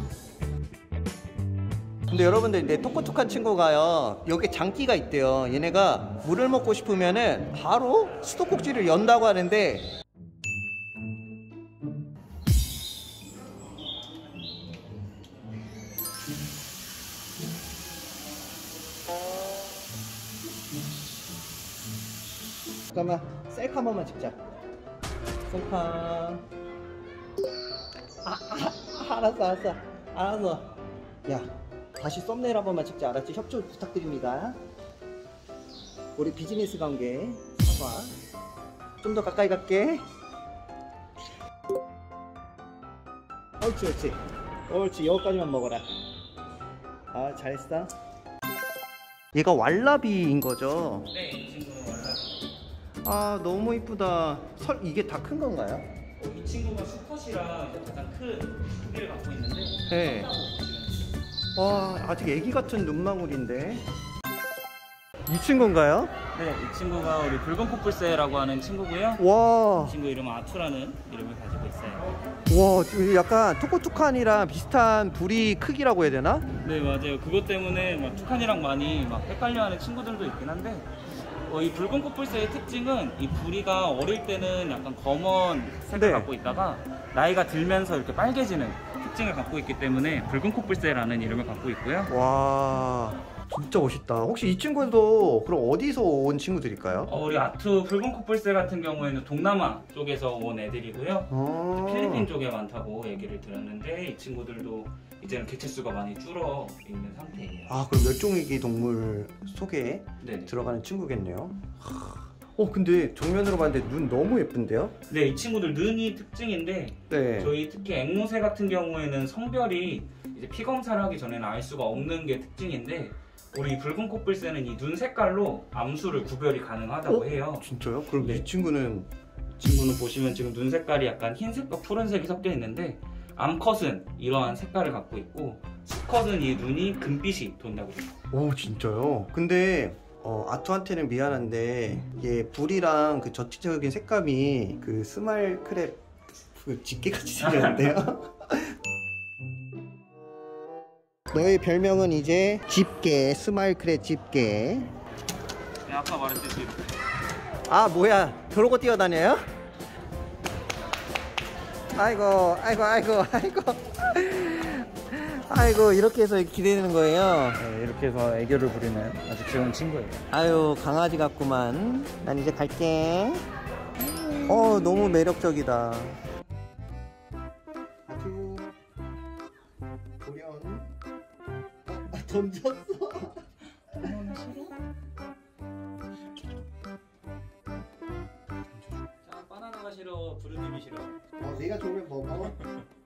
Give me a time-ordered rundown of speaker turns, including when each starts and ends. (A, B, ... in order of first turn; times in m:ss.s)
0:02.1-0:09.9 A
0:22.9-0:24.4 A
0:25.5-0:26.4 A
0:28.2-0:30.7 A
0:31.2-0:34.6 A
0:36.2-0:38.1 A
0:39.0-0:40.0 A
0:43.6-0:45.9 A
0:47.1-0:47.9 A
0:49.3-0:51.1 A
0:51.1-0:52.5 B
0:53.0-0:55.9 A
0:56.2-1:01.2 B
0:59.9-1:00.3 A
1:01.5-1:03.8 A
1:05.3-1:06.1 A
1:06.3-1:09.2 B
1:09.2-1:10.0 A
1:09.8-1:12.1 B
1:12.5-1:16.4 A
1:16.6-1:20.9 B
1:21.4-1:32.1 B
1:25.9-1:26.3 A
1:32.1-1:37.1 A
1:37.1-1:47.7 B
1:41.3-1:42.3 A
1:47.7-1:54.9 A
1:50.2-1:50.5 B
1:55.1-2:08.4 B
1:57.1-1:57.5 A
2:07.1-2:09.1 A
2:09.6-2:18.1 B
2:18.3-2:26.0 A
2:26.5-2:28.7 A
2:27.4-2:27.9 B
2:31.3-2:34.9 A
2:35.8-2:37.0 B
2:37.7-2:39.4 A
2:41.9-2:47.6 A
2:47.6-2:50.2 B
2:50.3-2:53.4 A
2:54.5-2:56.2 A
2:58.1-2:58.7 A
3:00.2-3:00.9 A
3:01.8-3:03.4 A
3:03.9-3:04.8 B
3:08.7-3:11.2 B
3:11.4-3:12.6 A